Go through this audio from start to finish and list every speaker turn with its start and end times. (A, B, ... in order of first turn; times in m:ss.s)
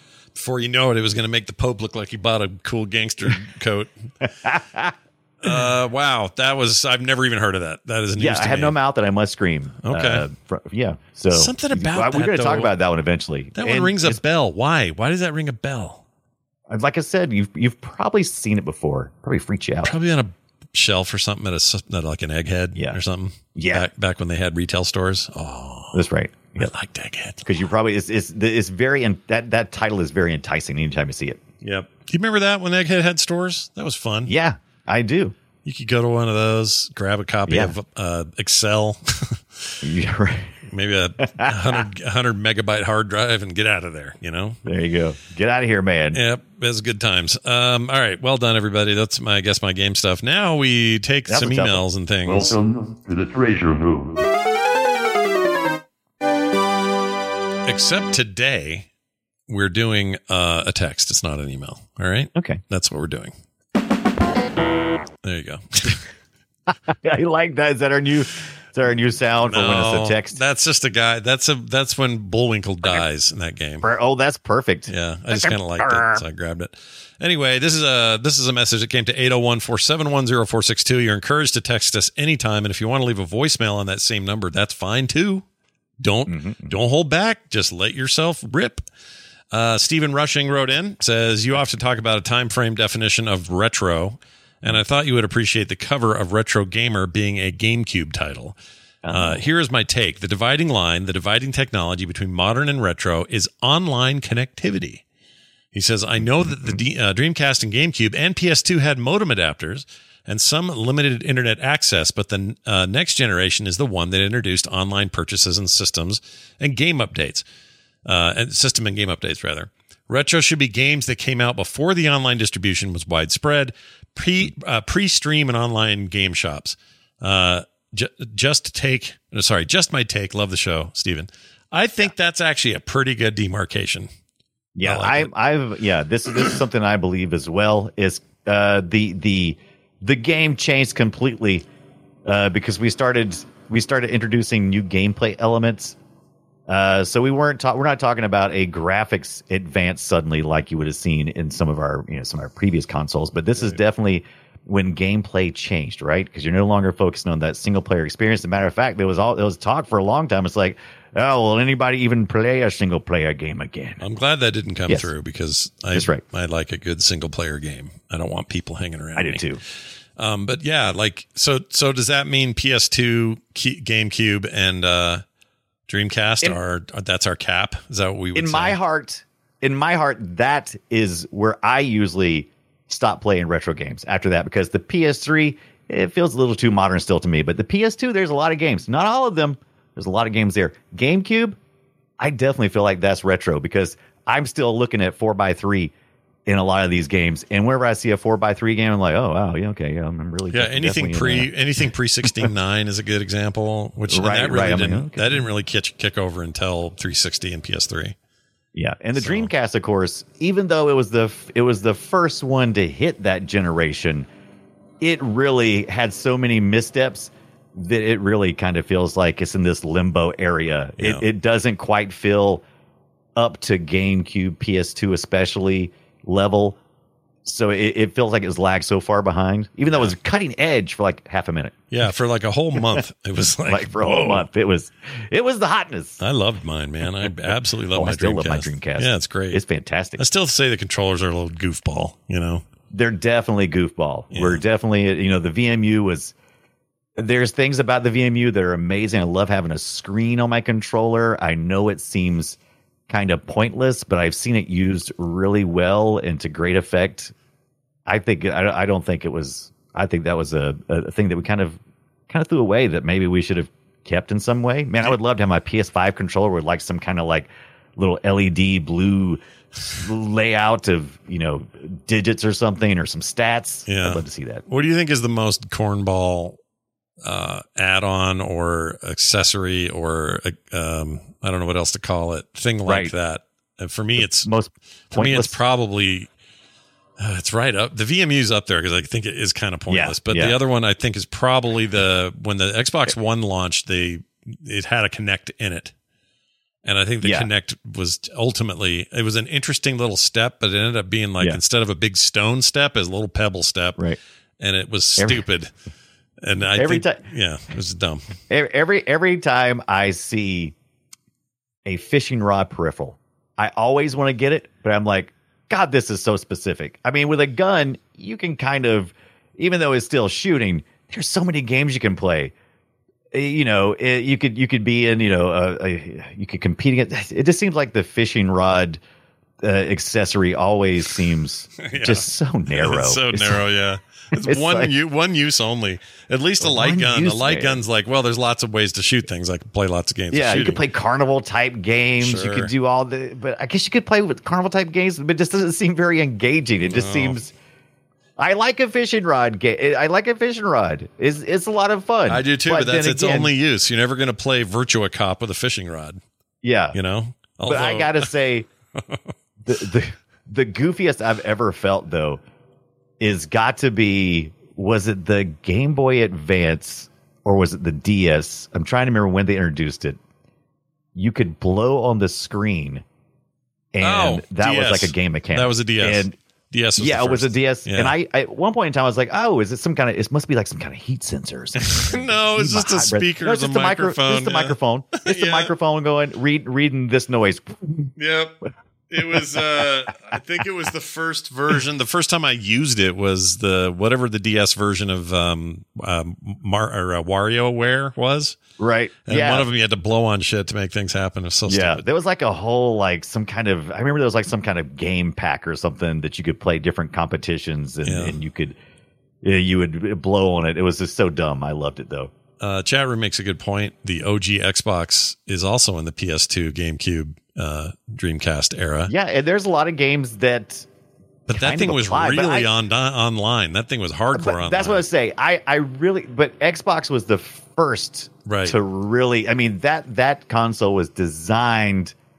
0:00.4-0:03.9 A
0:04.2-0:05.0 B
0:05.4-0:08.8 A
0:08.2-0:14.2 B
0:09.8-0:10.3 A
0:11.3-0:12.7 A
0:13.6-0:16.0 A
0:16.7-0:20.0 B
0:19.8-0:26.1 A
0:23.6-0:23.9 B
0:25.9-0:26.7 B
0:26.6-0:27.5 A
0:27.4-0:31.4 B
0:31.6-0:34.3 A
0:34.3-0:35.4 B
0:35.6-0:39.8 A
0:37.5-0:37.8 B
0:39.8-0:40.6 B
0:40.7-0:44.6 A
0:41.4-0:41.8 B
0:44.6-0:46.2 B
0:46.1-0:52.6 A
0:51.3-0:51.8 B
0:52.3-0:54.2 C
0:57.7-0:58.9 A
0:59.5-1:03.3 A
1:02.4-1:02.6 B
1:05.2-1:06.1 A
1:06.9-1:10.4 B
1:09.5-1:13.9 A
1:13.8-1:16.2 B
1:14.9-1:25.4 A
1:26.0-1:28.8 A
1:26.3-1:26.8 B
1:29.5-1:38.6 A
1:39.0-1:39.4 B
1:39.1-1:45.0 A
1:45.7-1:57.4 A
1:46.2-1:46.8 B
1:58.0-2:14.1 A
2:14.8-2:21.7 B
2:14.8-2:15.3 A
2:22.2-2:26.0 B
2:26.7-2:44.0 B
2:44.0-2:49.4 A
2:45.9-2:46.2 B
2:49.2-2:49.6 B
2:50.2-2:55.2 A
2:55.9-2:58.8 A
2:58.4-3:11.6 B
3:12.2-3:15.9 B
3:16.5-3:21.5 B
3:20.5-3:28.2 A
3:24.1-3:25.4 B
3:28.8-3:34.3 B
3:29.2-3:29.5 A
3:35.0-3:42.6 B
3:43.4-3:46.8 B
3:47.4-3:51.8 B
3:51.9-3:54.5 A
3:53.6-3:56.2 B
3:56.2-3:59.6 A
3:57.9-4:00.2 B
4:00.2-4:02.6 A
4:02.9-4:06.4 B
4:04.3-4:04.6 A
4:07.2-4:12.6 B
4:13.1-4:17.3 B
4:18.1-4:29.4 B
4:30.0-4:34.6 B
4:33.9-4:36.6 A
4:37.2-4:44.5 A
4:42.9-4:43.1 B
4:44.2-4:45.6 B
4:45.1-4:46.3 A
4:47.2-4:55.9 A
4:49.9-4:50.6 B
4:56.8-5:04.0 A
4:57.2-4:57.5 B
5:04.6-5:05.7 A
5:05.2-5:05.4 B
5:06.4-5:08.2 A
5:06.8-5:07.2 B
5:08.5-5:10.8 B
5:11.8-5:22.5 B
5:23.3-5:29.0 B
5:29.6-5:33.7 B
5:31.8-5:40.8 A
5:34.3-5:34.9 B
5:36.6-5:37.8 B
5:40.3-5:47.5 B
5:42.2-5:42.7 A
5:46.9-5:47.4 A
5:48.4-5:53.6 B
5:52.3-5:56.2 A
5:56.6-5:57.0 B
5:56.9-5:58.3 A
5:57.6-5:58.7 B
5:59.0-5:59.3 A
5:59.7-6:02.4 B
6:03.2-6:10.2 B
6:11.2-6:13.0 B
6:13.9-6:16.4 B
6:14.0-6:18.2 A
6:17.0-6:28.1 B
6:21.8-6:25.7 A
6:28.2-6:38.6 A
6:38.8-6:39.7 B
6:39.3-6:42.0 A
6:41.7-6:48.8 B
6:48.0-6:48.4 A
6:49.4-6:52.3 B
6:52.6-6:59.1 A
6:59.1-7:00.9 B
7:01.5-7:05.0 A
7:01.5-7:02.7 B
7:04.3-7:12.2 B
7:08.5-7:08.8 A